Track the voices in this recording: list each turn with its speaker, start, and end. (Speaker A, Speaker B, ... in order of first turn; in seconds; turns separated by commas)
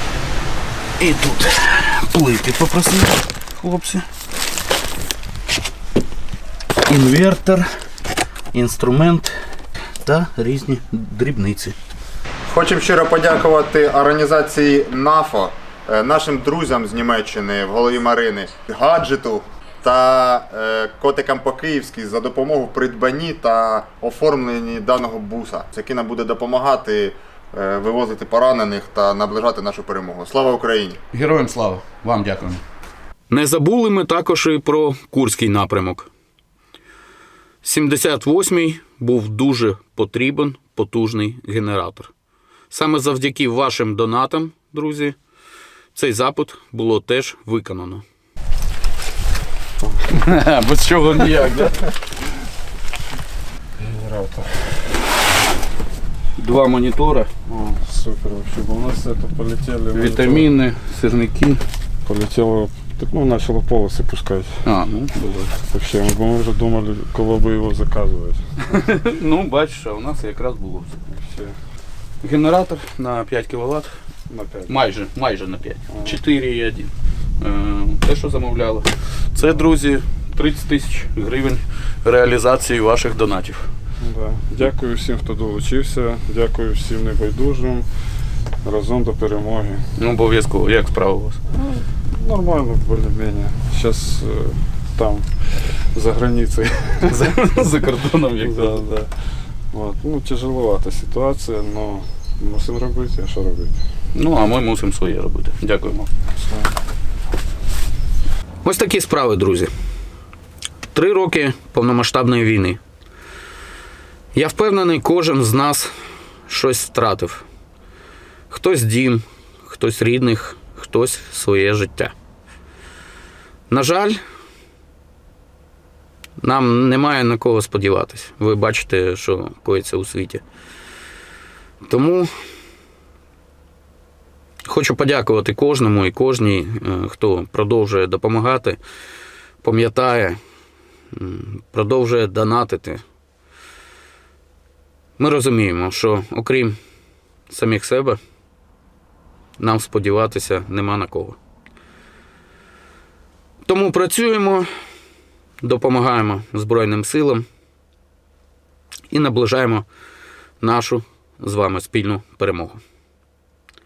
Speaker A: 1.0-4.0, Speaker A: 6.9-7.7, Speaker A: 8.5-9.3, Speaker A: 10.0-11.8, Speaker B: 12.5-31.0, Speaker A: 31.1-32.6, Speaker A: 33.3-36.1, Speaker A: 37.6-42.1, Speaker A: 42.7-45.2, Speaker A: 46.0-48.0, Speaker A: 50.1-51.9, Speaker C: 53.8-54.8, Speaker A: 56.4-57.3, Speaker C: 57.5-60.5, Speaker A: 59.9-61.6, Speaker C: 62.1-64.6, Speaker A: 64.7-65.5, Speaker C: 65.7-68.4, Speaker A: 68.7-70.9, Speaker C: 71.1-71.6, Speaker A: 72.2-73.9, Speaker C: 74.3-74.8, Speaker A: 74.7-83.7, Speaker C: 75.9-76.2, Speaker C: 84.0-87.9, Speaker C: 88.6-89.8, Speaker A: 90.0-91.4, Speaker C: 92.1-95.3, Speaker C: 95.9-97.3, Speaker A: 97.0-98.8, Speaker C: 98.4-99.1, Speaker C: 99.7-103.8, Speaker A: 104.1-106.1, Speaker C: 106.4-106.7, Speaker A: 108.6-109.7, Speaker A: 110.9-112.8, Speaker A: 114.3-115.9, Speaker A: 116.5-117.4, Speaker A: 118.5-122.1, Speaker A: 123.7-124.2, Speaker A: 126.4-130.4, Speaker A: 131.8-132.3, Speaker A: 134.7-138.8, Speaker A: 139.6-140.4, Speaker A: 141.1-143.0, Speaker A: 145.2-146.8, Speaker A: 147.5-148.2, Speaker A: 149.6-151.4, Speaker A: 153.7-154.7, Speaker A: 155.6-157.4, Speaker A: 159.1-159.9, Speaker A: 160.6-162.8